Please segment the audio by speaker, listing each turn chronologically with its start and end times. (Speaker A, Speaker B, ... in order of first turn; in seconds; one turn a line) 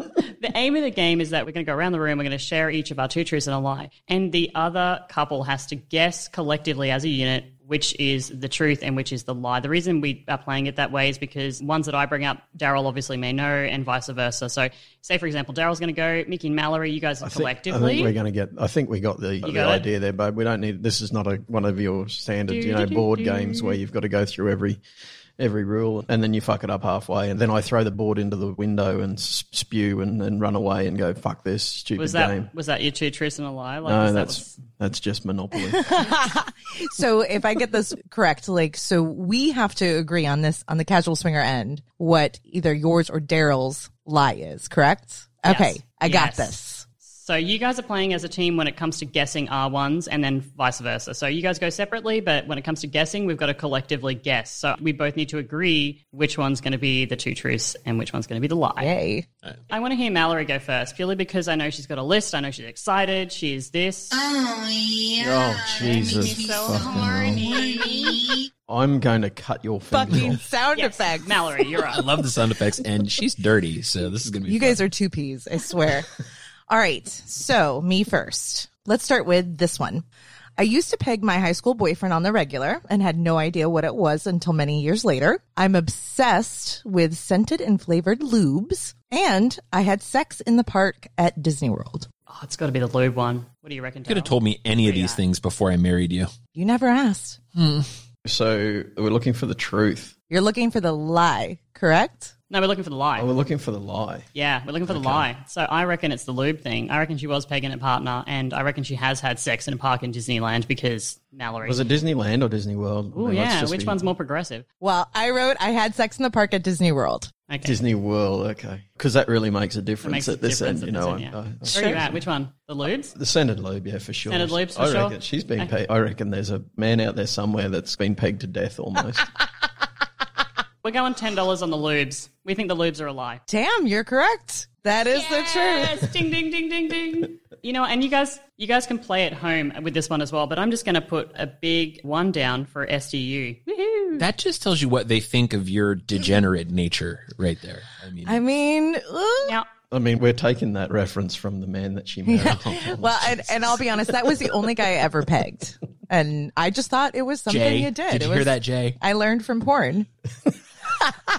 Speaker A: 0.3-18.1
Speaker B: 17.2-24.8
Speaker A: 19.4-19.8
Speaker A: 22.5-23.8
Speaker B: 25.4-32.5
Speaker A: 32.0-34.5
Speaker B: 33.8-36.1
Speaker C: 35.7-46.9
Speaker A: 45.4-58.9
Speaker C: 58.8-59.3
Speaker A: 59.7-64.3
Speaker B: 65.2-67.5
Speaker A: 65.7-68.2
Speaker B: 68.7-70.4
Speaker C: 69.9-71.4
Speaker A: 70.7-72.0
Speaker D: 71.9-74.8
Speaker C: 74.5-76.1
Speaker C: 76.7-80.0
Speaker C: 80.6-92.1
Speaker A: 92.3-95.2
Speaker D: 94.1-96.3
Speaker C: 96.5-97.4
Speaker D: 97.5-97.9
Speaker B: 98.2-100.1
Speaker C: 100.3-102.3
Speaker A: 102.5-103.3
Speaker B: 103.1-104.3
Speaker A: 104.3-111.8
Speaker B: 104.9-105.3
Speaker B: 111.6-114.0
Speaker A: 113.1-114.6
Speaker C: 114.8-117.3
Speaker A: 117.5-117.8
Speaker B: 117.6-122.2
Speaker A: 120.0-123.1
Speaker C: 121.7-122.0
Speaker B: 123.1-129.3
Speaker A: 124.3-125.7
Speaker A: 130.8-133.4
Speaker C: 133.5-136.1
Speaker A: 135.1-144.2
Speaker D: 144.2-148.4
Speaker C: 148.2-149.6
Speaker B: 149.9-153.8
Speaker C: 152.2-160.1
Speaker D: 152.4-152.8
Speaker D: 157.5-159.0